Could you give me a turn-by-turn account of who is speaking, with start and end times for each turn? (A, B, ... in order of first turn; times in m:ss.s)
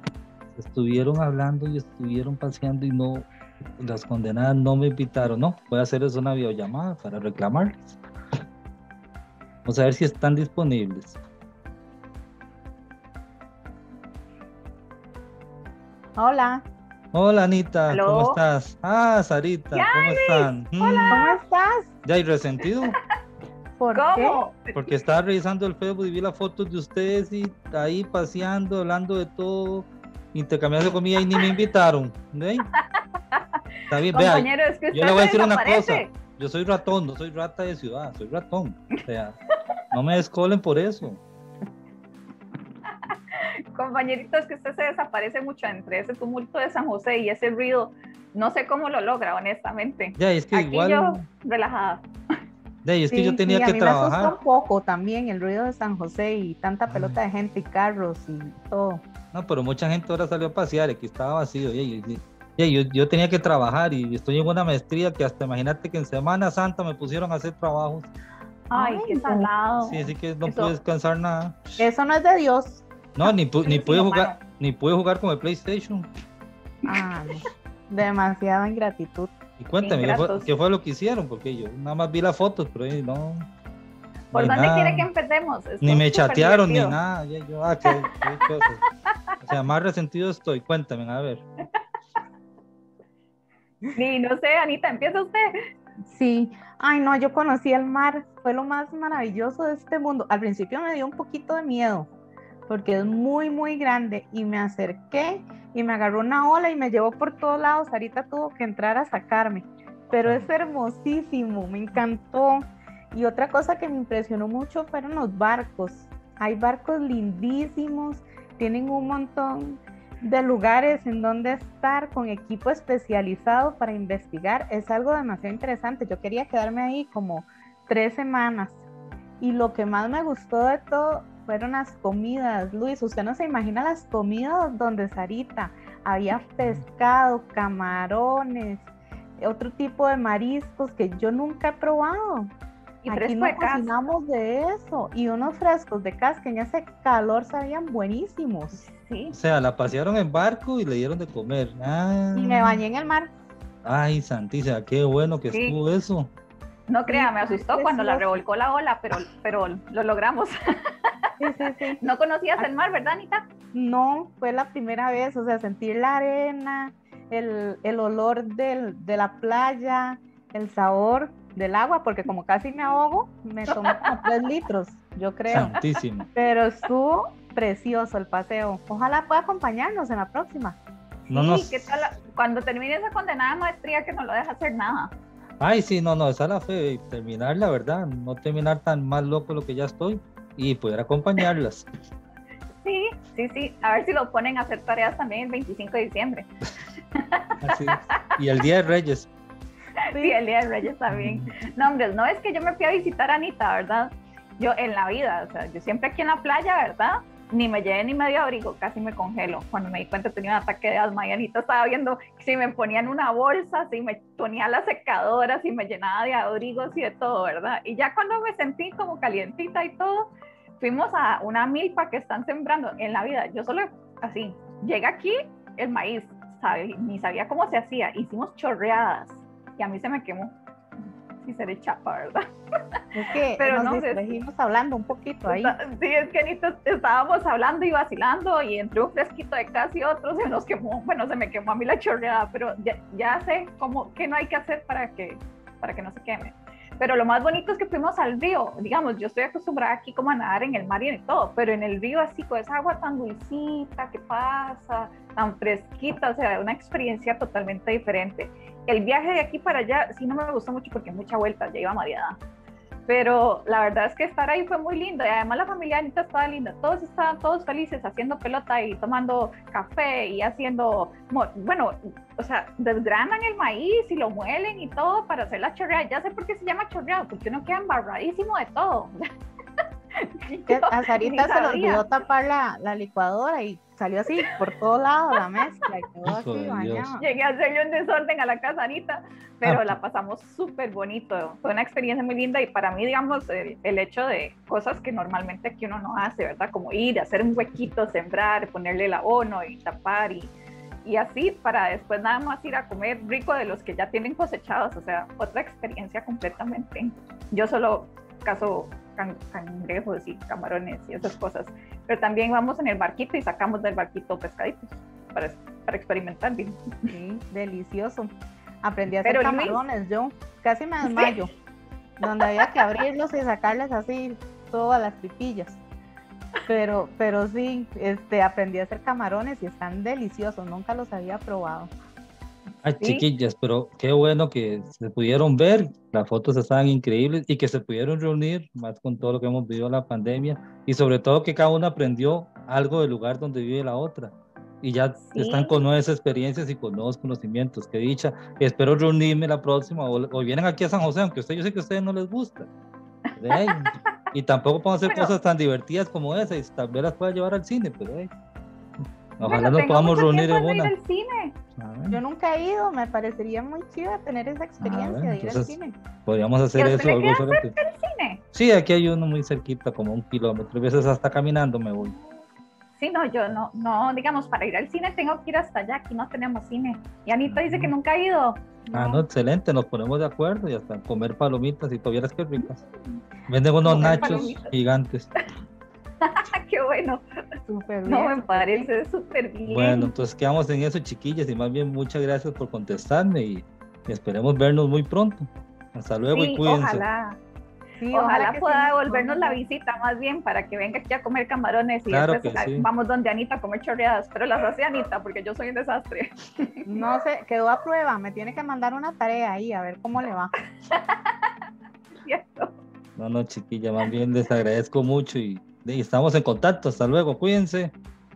0:00.6-0:03.3 A
0:03.8-0:08.0 A
0:09.6-0:11.2 A
0:16.2-0:16.6 B
0:17.1-0:21.2 A
0:17.9-0:18.4 C
0:19.7-0:21.4 C
0:21.1-0:21.9 B
0:22.0-0:23.0 A
0:22.9-0:23.2 C
0:23.8-0:24.4 B
0:23.9-0:25.0 C
0:24.7-0:32.7 A
0:32.7-0:36.1 C
0:33.9-0:39.4 A
0:39.9-0:41.2 A
0:42.9-0:52.0 C
0:50.2-0:51.2 A
0:52.8-0:54.4 A
0:53.1-0:59.0 B
0:56.9-0:57.2 A
0:59.3-1:08.1 A
1:08.7-1:10.8 C
1:08.7-1:09.5 B
1:09.8-1:11.8 A
1:11.8-1:12.8 B
1:13.2-1:16.1 A
1:13.6-1:14.4 C
1:16.9-1:19.3 B
1:19.6-1:23.5 A
1:19.8-1:20.5 C
1:24.3-1:27.0 C
1:24.3-1:25.1 A
1:25.8-1:28.8 A
1:29.4-1:31.4 A
1:33.9-1:35.5 C
1:36.0-1:42.1 B
1:42.7-2:08.8 B
1:50.2-1:50.5 A
2:09.4-2:22.5 B
2:23.0-2:23.9 C
2:23.1-2:28.9 B
2:28.8-2:29.4 C
2:29.3-2:32.8 A
2:32.3-2:33.3 B
2:33.8-2:36.3 A
2:35.5-2:35.8 C
2:36.9-2:41.3 C
2:37.1-2:38.4 B
2:41.4-2:42.0 B
2:42.0-2:43.4 C
2:43.7-2:55.7 B
2:53.8-2:54.3 C
2:55.5-2:56.3 A
2:55.5-2:55.8 C
2:56.4-3:00.8 B
3:01.3-3:05.1 C
3:01.3-3:01.9 A
3:05.6-3:11.9 A
3:12.8-3:16.5 C
3:17.1-3:18.2 C
3:17.6-3:19.3 A
3:20.0-3:50.6 C
3:21.1-3:21.5 A
3:51.4-3:52.4 C
3:53.1-3:55.8 B
3:53.6-3:54.3 C
3:55.5-4:22.4 C
4:23.1-4:39.3 C
4:40.2-4:42.0 C
4:40.7-4:47.2 B
4:46.2-4:47.2 A
4:47.2-5:00.5 C
4:49.6-4:50.0 A
5:01.0-5:17.1 C
5:17.1-5:21.5 B
5:19.2-5:19.8 C
5:21.0-5:21.4 C
5:22.2-5:25.8 B
5:22.2-5:22.9 C
5:26.7-5:31.9 B
5:32.8-5:52.7 A
5:32.9-5:33.3 C
5:45.2-5:45.8 C
5:53.3-5:54.2 C
5:53.4-5:58.3 A
5:55.1-5:55.3 C
5:59.4-6:00.9 A
5:59.4-6:01.6 C
6:01.8-6:02.2 A
6:02.1-6:06.0 B
6:04.8-6:07.7 A
6:06.8-6:08.4 C
6:08.5-6:12.2 A
6:13.0-6:19.2 C
6:17.4-6:17.9 A
6:18.9-6:22.8 A
6:23.5-6:25.3 A
6:23.8-6:24.7 C
6:23.9-6:24.5 B
6:26.2-6:27.5 C
6:27.7-6:28.9 B
6:28.1-6:30.1 C
6:29.7-6:37.0 A
6:36.3-6:37.4 C
6:38.0-6:39.6 B
6:38.1-6:46.9 C
6:42.1-6:42.9 A
6:46.9-6:50.5 B
6:50.9-6:51.5 C
6:52.2-6:52.8 C
6:53.2-6:57.9 A